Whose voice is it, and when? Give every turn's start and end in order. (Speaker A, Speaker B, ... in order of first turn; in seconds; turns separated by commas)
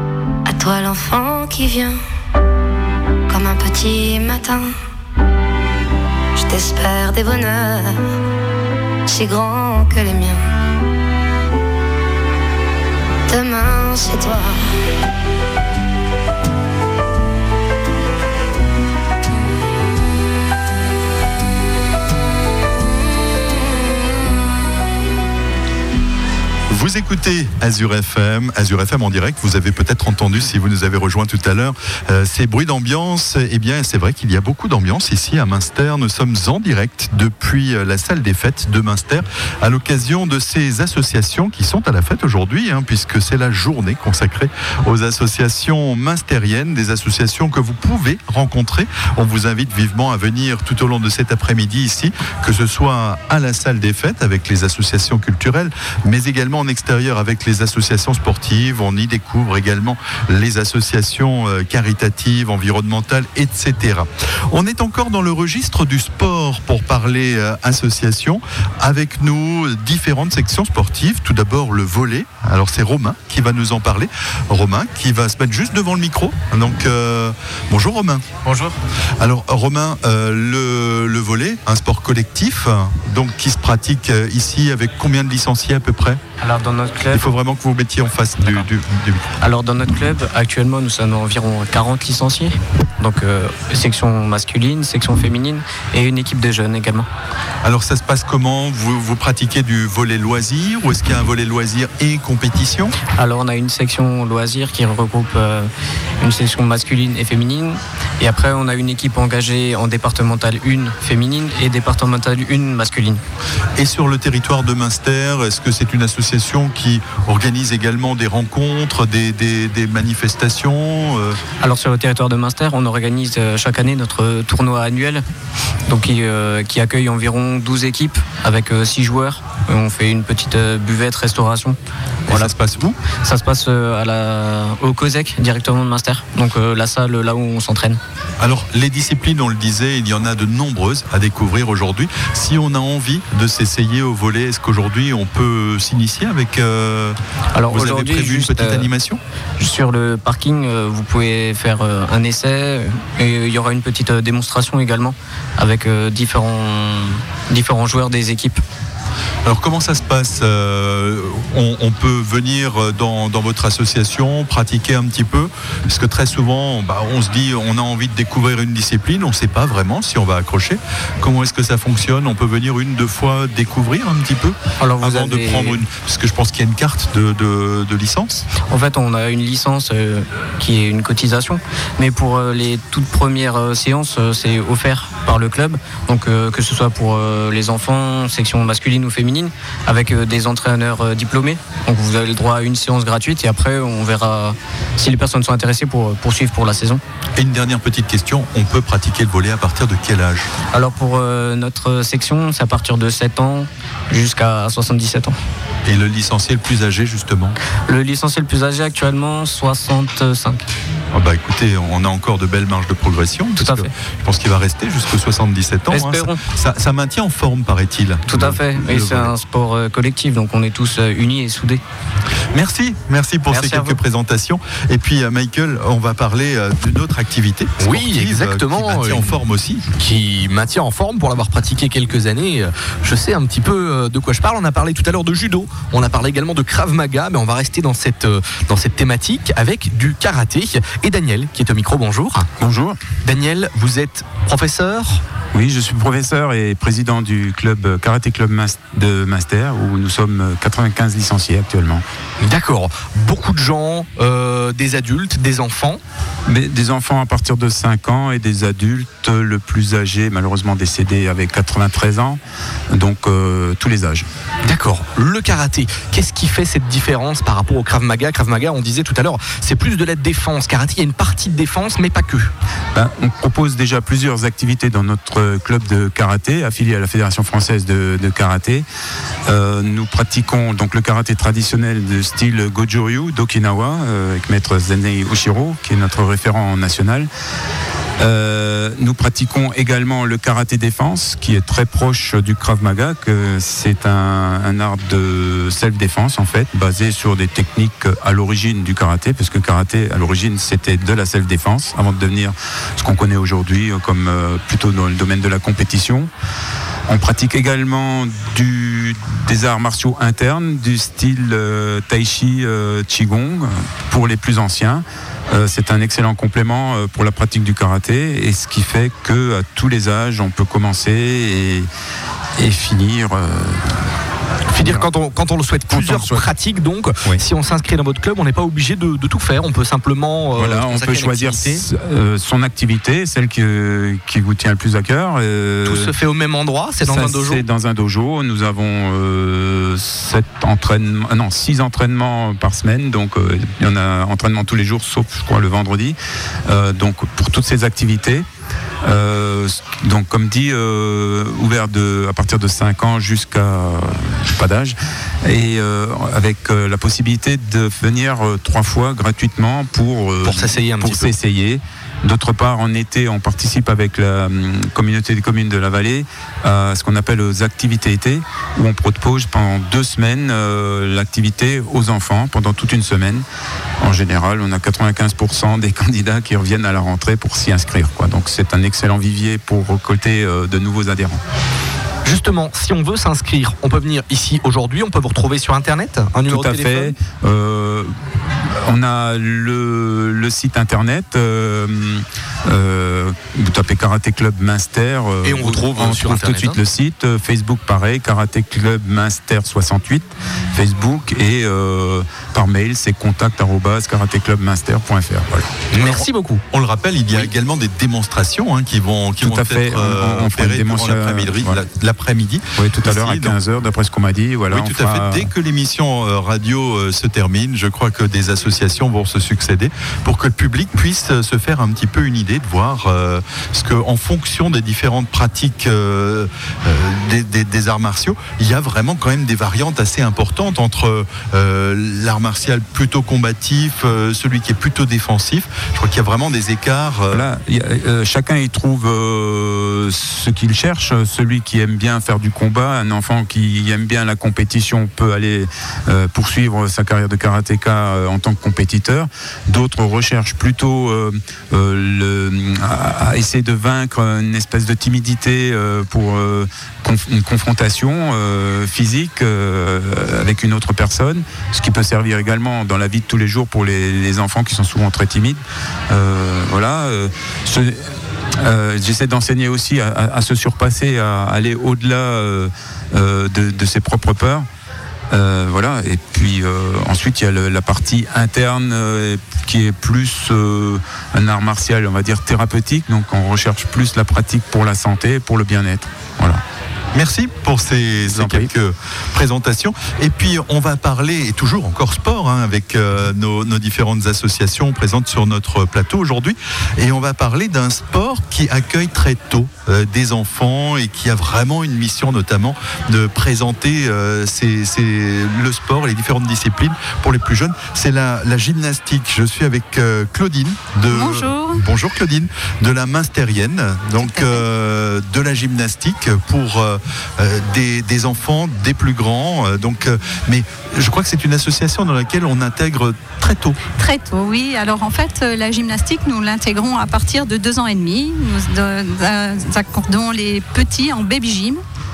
Speaker A: 0.5-2.0, Speaker A: 3.3-4.8, Speaker A: 6.4-8.0, Speaker A: 9.1-10.5, Speaker A: 13.3-14.7, Speaker B: 26.7-78.3, Speaker C: 78.5-78.8, Speaker B: 79.2-86.2, Speaker C: 86.4-87.3, Speaker B: 87.1-89.3, Speaker C: 88.4-88.7, Speaker C: 89.4-97.1, Speaker B: 97.6-102.9, Speaker C: 103.2-113.2, Speaker B: 113.8-121.4, Speaker C: 121.6-125.2, Speaker C: 125.9-131.8, Speaker B: 132.3-133.0, Speaker C: 133.2-138.0, Speaker B: 138.4-147.2, Speaker C: 147.5-148.9, Speaker B: 147.7-149.2, Speaker C: 149.6-158.6, Speaker B: 159.4-178.5, Speaker C: 174.8-175.8, Speaker C: 178.7-197.0, Speaker B: 197.4-200.5, Speaker C: 200.7-205.4, Speaker B: 205.9-207.6, Speaker C: 207.9-210.7, Speaker B: 211.1-219.3, Speaker C: 213.6-213.9, Speaker C: 215.9-216.4, Speaker C: 218.3-221.8, Speaker B: 222.5-229.9, Speaker C: 223.5-224.0, Speaker D: 227.8-229.4, Speaker D: 230.0-242.5, Speaker E: 242.6-243.0, Speaker D: 243.2-245.2, Speaker E: 245.5-252.0, Speaker D: 252.4-256.0, Speaker E: 256.5-262.4, Speaker E: 262.9-264.3, Speaker D: 264.6-272.5, Speaker E: 272.9-278.9, Speaker E: 279.5-287.3, Speaker E: 288.2-306.3, Speaker E: 307.1-321.9, Speaker E: 322.6-324.1, Speaker D: 324.7-331.8, Speaker E: 324.8-325.1, Speaker E: 325.9-326.5, Speaker E: 330.6-336.1, Speaker D: 335.9-337.6, Speaker E: 337.0-348.5, Speaker E: 349.0-373.4, Speaker D: 360.4-361.4, Speaker E: 374.0-381.4, Speaker D: 382.2-387.1, Speaker E: 386.4-405.7, Speaker D: 395.4-396.8, Speaker D: 405.9-406.6, Speaker B: 406.0-413.6, Speaker E: 409.4-411.8, Speaker E: 412.8-415.5, Speaker B: 414.7-437.5, Speaker E: 437.3-474.7, Speaker E: 475.3-486.6, Speaker B: 487.1-523.8, Speaker E: 488.2-488.7, Speaker F: 511.1-511.8, Speaker F: 514.2-514.6, Speaker F: 524.0-531.8